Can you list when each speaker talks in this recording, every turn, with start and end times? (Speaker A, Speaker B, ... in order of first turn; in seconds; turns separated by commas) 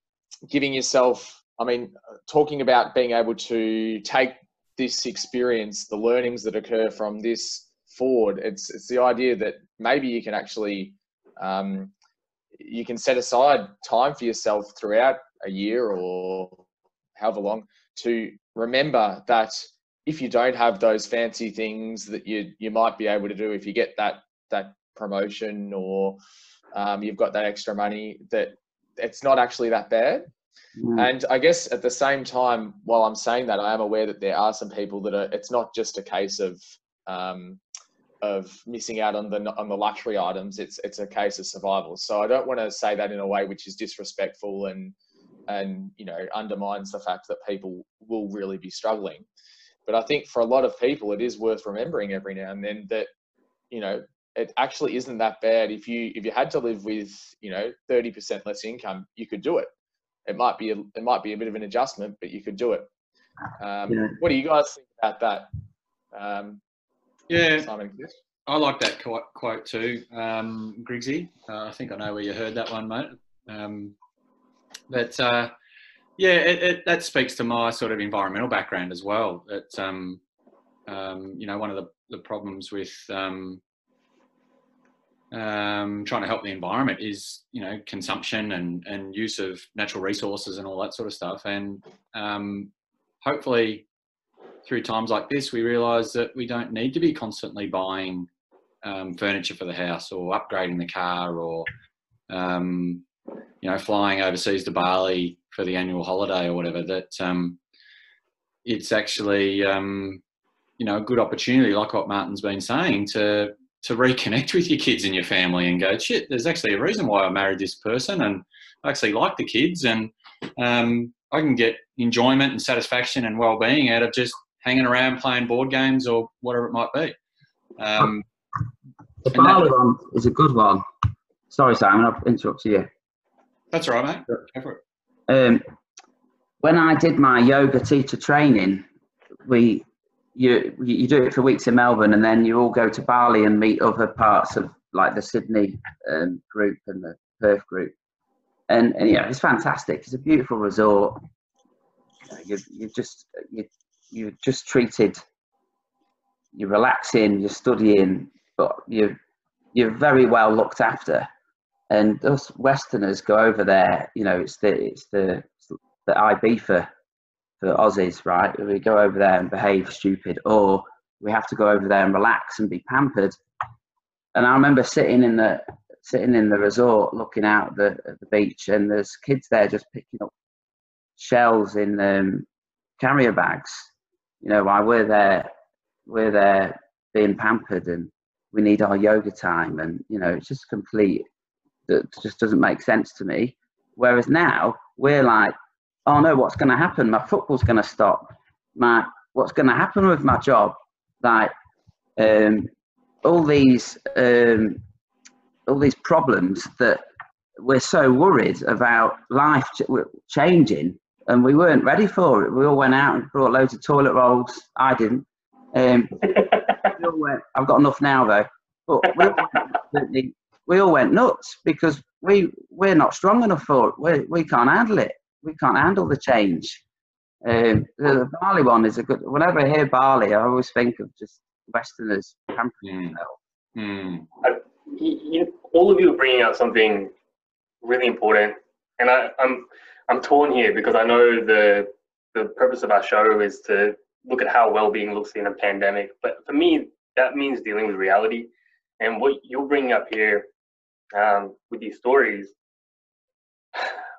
Speaker A: 0.5-11.9, Speaker A: 12.6-16.6, Speaker A: 17.1-26.2, Speaker A: 26.7-30.3, Speaker B: 30.8-31.1, Speaker A: 30.9-37.6, Speaker A: 38.2-44.9, Speaker A: 45.5-49.2, Speaker A: 49.9-53.1, Speaker A: 53.7-59.7, Speaker A: 60.2-62.9, Speaker A: 63.6-65.5, Speaker B: 63.9-64.1, Speaker A: 66.1-66.6, Speaker C: 67.3-67.7, Speaker A: 67.6-68.1, Speaker C: 68.5-73.9, Speaker C: 74.9-75.5, Speaker C: 76.2-80.2, Speaker C: 80.9-83.6, Speaker C: 85.3-92.7, Speaker C: 93.2-93.8, Speaker C: 94.6-98.3, Speaker C: 98.8-101.7, Speaker C: 102.3-103.0, Speaker C: 103.6-107.6, Speaker C: 108.6-110.2, Speaker C: 110.8-127.2, Speaker C: 127.8-128.2, Speaker B: 129.2-130.8, Speaker B: 131.5-132.9, Speaker C: 133.7-134.8, Speaker B: 135.3-135.6, Speaker B: 136.6-138.8, Speaker B: 139.4-147.9, Speaker B: 148.7-151.2, Speaker B: 152.3-155.2, Speaker B: 156.5-159.2, Speaker B: 159.7-161.3, Speaker B: 161.9-166.9, Speaker B: 167.6-173.4, Speaker B: 174.3-180.3, Speaker B: 181.2-182.4, Speaker B: 183.0-183.9, Speaker B: 184.4-185.5, Speaker B: 186.1-191.2, Speaker B: 191.9-195.5, Speaker B: 196.1-201.5, Speaker B: 202.2-202.7, Speaker B: 203.2-204.8, Speaker B: 205.7-207.0, Speaker B: 207.6-226.8, Speaker B: 227.4-233.3, Speaker C: 232.8-233.2, Speaker C: 233.7-234.3, Speaker D: 234.4-237.1, Speaker D: 237.8-250.5, Speaker D: 251.1-252.5, Speaker D: 253.7-254.0